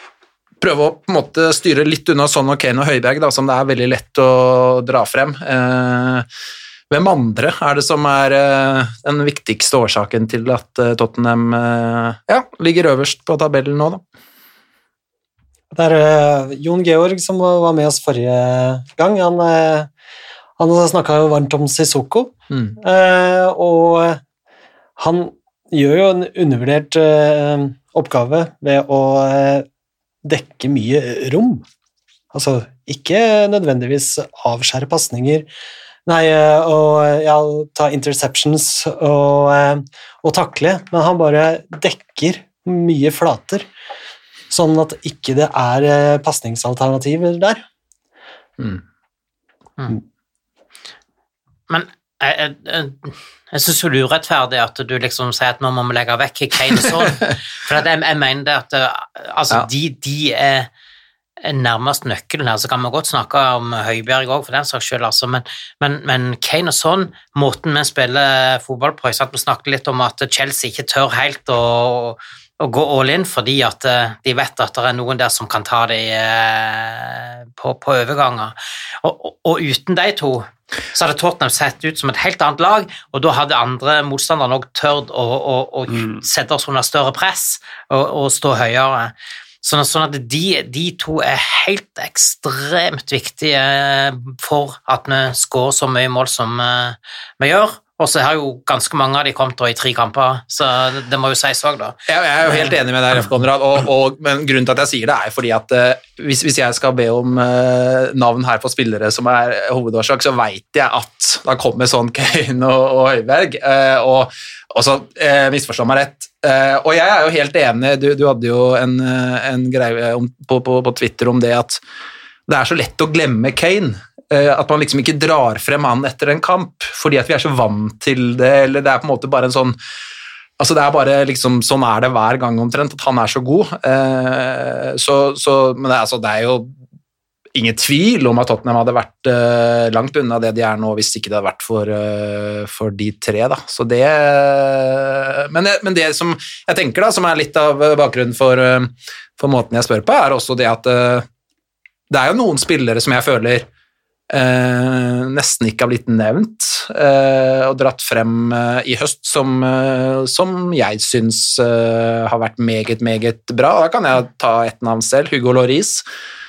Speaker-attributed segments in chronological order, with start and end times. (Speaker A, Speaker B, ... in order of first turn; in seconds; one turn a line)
Speaker A: 0.6-6.2
Speaker A: 6.9-14.0
Speaker B: 15.7-19.9
Speaker B: 20.6-24.2
Speaker A: 22.5-22.8
Speaker B: 25.0-29.6
Speaker B: 30.2-31.6
Speaker B: 32.3-35.5
Speaker B: 36.0-43.6
Speaker B: 44.5-47.6
Speaker C: 51.7-60.7
Speaker A: 56.8-57.3
Speaker C: 61.4-102.8
Speaker A: 102.1-121.8
Speaker A: 122.5-129.8
Speaker A: 130.6-136.7
Speaker A: 137.5-151.2
Speaker A: 152.1-153.7
Speaker A: 154.3-166.0